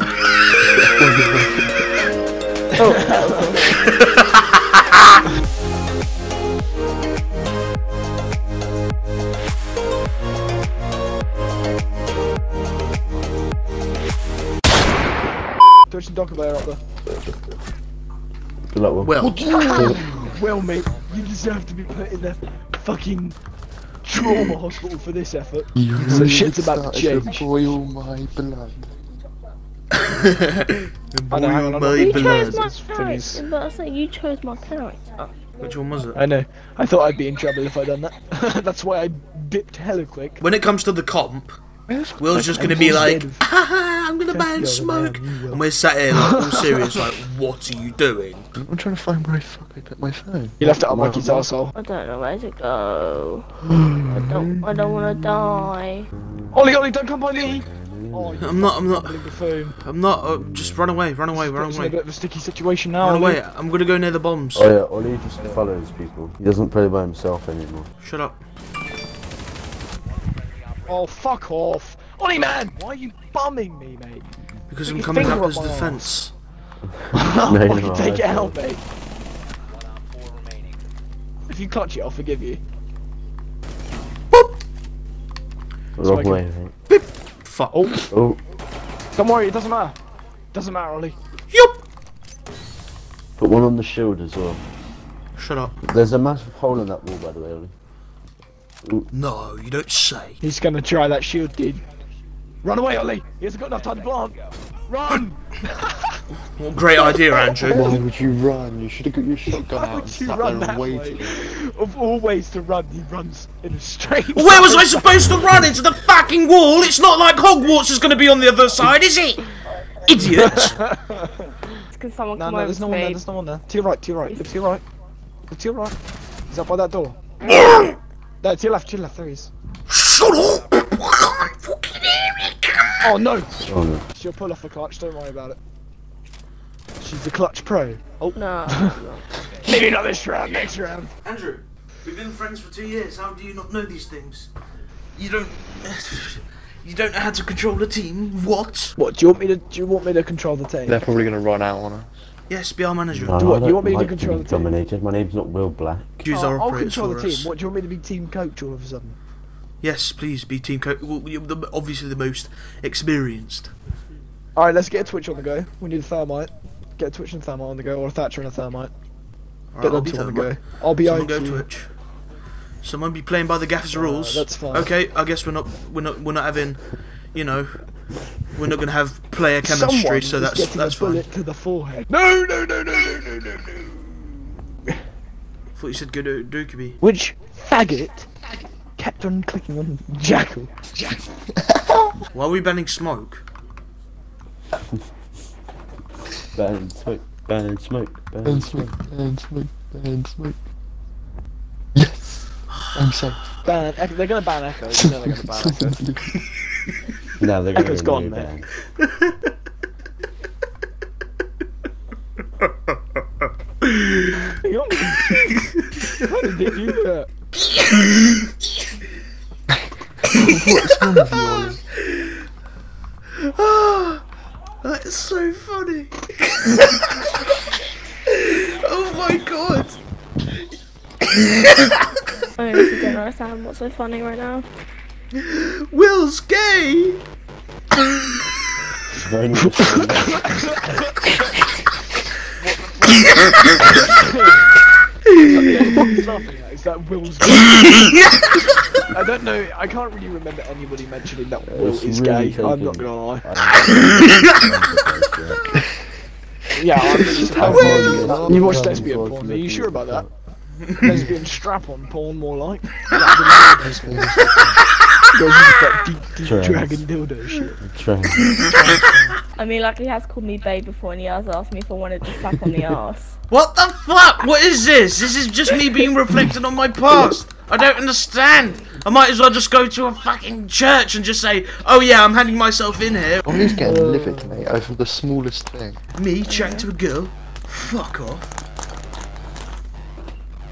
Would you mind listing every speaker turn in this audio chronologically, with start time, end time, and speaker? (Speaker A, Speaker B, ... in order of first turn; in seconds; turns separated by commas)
Speaker A: 0.8-1.7, Speaker B: 2.8-3.5, Speaker C: 2.9-3.6, Speaker D: 3.7-4.4, Speaker B: 15.9-16.8, Speaker E: 18.7-20.1, Speaker D: 19.0-19.4, Speaker A: 19.2-20.4, Speaker B: 19.5-23.4, Speaker B: 24.0-27.4, Speaker A: 25.8-28.9, Speaker D: 29.9-32.6, Speaker B: 31.3-33.4, Speaker C: 31.9-35.3, Speaker D: 35.6-36.2, Speaker B: 36.1-40.4, Speaker D: 40.4-41.6, Speaker B: 41.9-43.4, Speaker D: 42.2-48.5, Speaker A: 42.2-43.1, Speaker B: 44.3-45.6, Speaker B: 46.1-46.5, Speaker A: 48.6-51.3, Speaker B: 50.6-51.7, Speaker E: 50.7-51.4, Speaker C: 51.7-53.5, Speaker A: 53.7-55.6, Speaker C: 54.1-56.1, Speaker B: 56.5-59.8, Speaker E: 57.4-59.2, Speaker D: 58.4-59.1, Speaker D: 59.8-62.0, Speaker E: 60.2-61.0, Speaker B: 61.4-63.4, Speaker D: 63.0-64.7, Speaker E: 64.5-67.9, Speaker D: 68.0-68.4, Speaker B: 70.8-74.3, Speaker D: 74.7-76.3, Speaker B: 74.8-76.2, Speaker E: 76.8-78.6, Speaker B: 77.1-78.8, Speaker B: 81.5-82.6, Speaker E: 86.0-86.7, Speaker B: 86.0-86.4, Speaker D: 86.9-87.9, Speaker E: 88.1-88.4, Speaker B: 89.1-90.0, Speaker B: 90.5-91.2, Speaker D: 91.5-91.8, Speaker E: 93.4-94.6, Speaker D: 95.4-95.7, Speaker E: 95.8-97.7, Speaker E: 98.8-99.1, Speaker D: 99.1-100.4, Speaker B: 100.4-101.8, Speaker B: 102.6-106.2, Speaker D: 106.5-108.0, Speaker B: 107.0-108.0, Speaker A: 107.6-111.3, Speaker B: 109.5-115.1, Speaker D: 114.3-119.5, Speaker D: 120.0-120.8, Speaker B: 120.4-121.8, Speaker C: 121.9-123.2, Speaker B: 122.3-124.8, Speaker B: 125.5-125.9, Speaker B: 126.5-127.2, Speaker D: 127.5-128.0, Speaker B: 128.4-129.5, Speaker D: 129.9-133.0, Speaker B: 133.0-133.5, Speaker E: 133.6-134.0, Speaker B: 134.1-135.6, Speaker B: 137.0-141.1, Speaker C: 138.3-139.2, Speaker D: 141.2-144.5, Speaker D: 145.2-148.9, Speaker B: 148.9-151.1, Speaker A: 150.8-152.1, Speaker D: 152.5-153.5, Speaker E: 153.1-156.2, Speaker B: 153.4-154.7, Speaker D: 156.2-157.5, Speaker B: 156.3-159.2, Speaker D: 159.8-163.7, Speaker B: 164.6-168.9, Speaker D: 169.7-171.9, Speaker B: 169.8-171.7, Speaker D: 172.8-181.2, Speaker B: 173.9-174.9, Speaker B: 179.6-184.2, Speaker D: 185.7-187.0, Speaker B: 187.0-188.3, Speaker B: 189.0-191.2, Speaker D: 192.3-193.4, Speaker E: 196.5-198.8, Speaker A: 198.4-200.6, Speaker A: 201.9-203.6, Speaker D: 202.7-203.0, Speaker B: 203.6-206.0, Speaker A: 204.9-206.4, Speaker E: 207.4-208.7, Speaker B: 207.7-208.5, Speaker D: 209.0-209.3, Speaker D: 213.8-214.4, Speaker B: 214.4-215.3, Speaker D: 215.2-216.1, Speaker B: 216.2-217.3, Speaker D: 217.6-218.5, Speaker A: 220.2-221.8, Speaker D: 222.1-222.3, Speaker D: 223.3-224.2, Speaker D: 224.8-227.7, Speaker D: 228.2-229.9, Speaker D: 231.2-232.0, Speaker C: 232.6-234.7, Speaker D: 235.3-237.2, Speaker E: 239.1-240.7, Speaker B: 239.6-241.4, Speaker B: 242.5-244.7, Speaker B: 245.4-248.2, Speaker B: 249.1-253.4, Speaker E: 251.7-255.8, Speaker D: 254.1-254.6, Speaker B: 256.7-260.3, Speaker A: 257.3-260.3, Speaker E: 257.4-259.1, Speaker D: 260.9-261.2, Speaker B: 261.0-264.5, Speaker A: 263.7-264.8, Speaker B: 265.3-267.7, Speaker E: 266.4-267.0, Speaker E: 267.8-268.6, Speaker B: 268.6-269.3, Speaker C: 269.6-273.3, Speaker D: 273.5-283.6, Speaker A: 283.4-286.0, Speaker E: 283.7-284.7, Speaker D: 286.1-288.5, Speaker C: 286.5-286.9